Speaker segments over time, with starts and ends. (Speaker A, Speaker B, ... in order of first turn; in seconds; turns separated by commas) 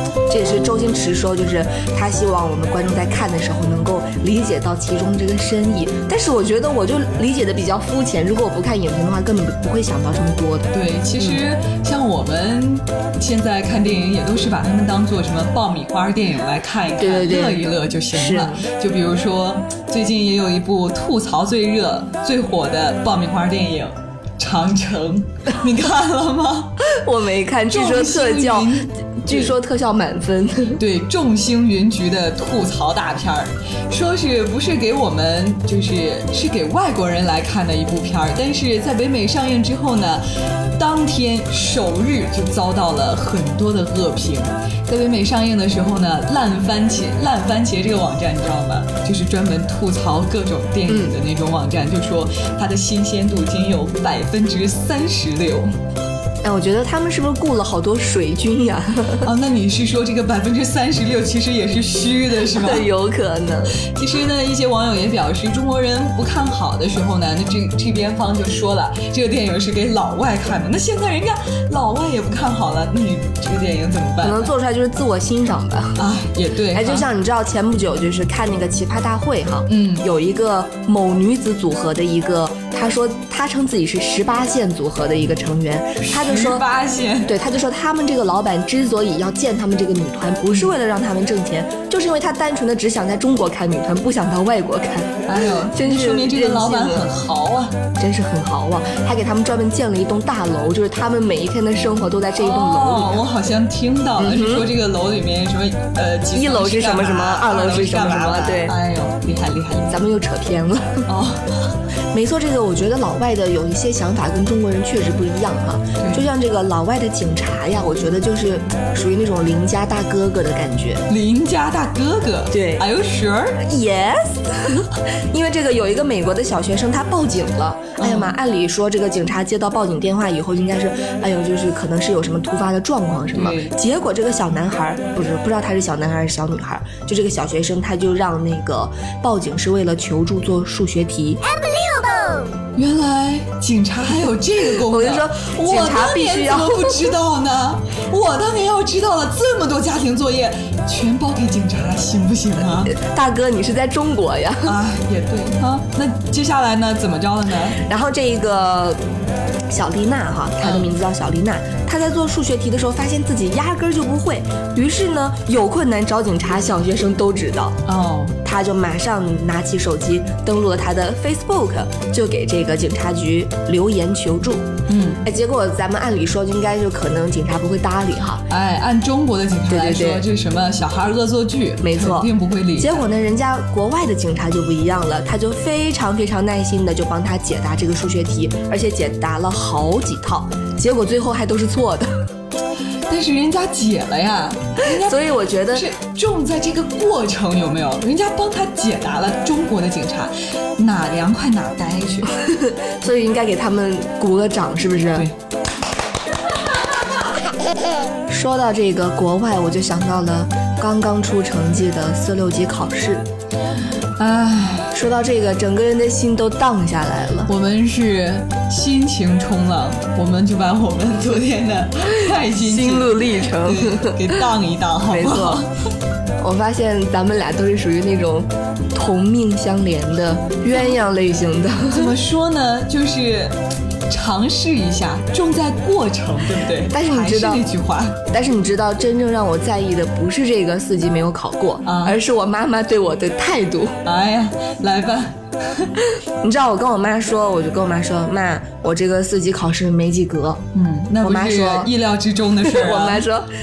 Speaker A: 0.3-11.4, Speaker B: 10.7-26.8, Speaker A: 17.0-18.7, Speaker A: 27.0-30.8, Speaker B: 27.7-29.6, Speaker B: 30.8-55.7, Speaker A: 50.9-51.2, Speaker A: 56.4-59.3, Speaker B: 59.2-62.9, Speaker A: 62.5-63.8, Speaker B: 63.9-74.5, Speaker A: 74.2-76.0, Speaker B: 76.0-77.1, Speaker A: 76.7-86.6, Speaker B: 79.7-80.1, Speaker B: 86.0-87.3, Speaker A: 87.2-97.2, Speaker B: 95.3-97.8, Speaker A: 98.0-103.2, Speaker B: 102.4-110.0, Speaker A: 104.2-104.7, Speaker A: 106.3-108.8, Speaker A: 109.9-111.1, Speaker B: 111.1-111.8, Speaker A: 112.1-121.0, Speaker B: 116.0-116.3, Speaker B: 121.1-123.6, Speaker A: 122.5-122.9, Speaker A: 123.6-141.4, Speaker B: 128.0-128.4, Speaker B: 133.3-133.7, Speaker B: 142.8-153.0, Speaker A: 144.6-147.1, Speaker A: 152.9-154.8, Speaker B: 154.7-157.8, Speaker A: 157.8-159.0, Speaker A: 159.7-167.8, Speaker B: 160.6-160.9, Speaker B: 167.8-168.4, Speaker A: 168.4-174.7, Speaker B: 174.9-175.3, Speaker A: 175.2-178.4, Speaker B: 178.5-183.0, Speaker A: 179.7-180.3, Speaker A: 181.8-192.1, Speaker B: 193.1-202.3, Speaker A: 194.8-195.9, Speaker A: 202.3-205.3, Speaker A: 208.3-213.2, Speaker B: 214.2-214.9, Speaker A: 214.9-217.5, Speaker B: 217.5-225.7, Speaker A: 222.3-224.4, Speaker A: 225.1-225.7, Speaker A: 226.4-232.2, Speaker B: 231.9-233.6, Speaker B: 234.1-238.2, Speaker A: 236.9-237.7, Speaker A: 238.3-244.0, Speaker B: 241.8-242.2, Speaker B: 244.1-245.9, Speaker A: 246.4-250.6, Speaker B: 250.7-253.2, Speaker A: 251.2-251.9, Speaker A: 252.6-253.5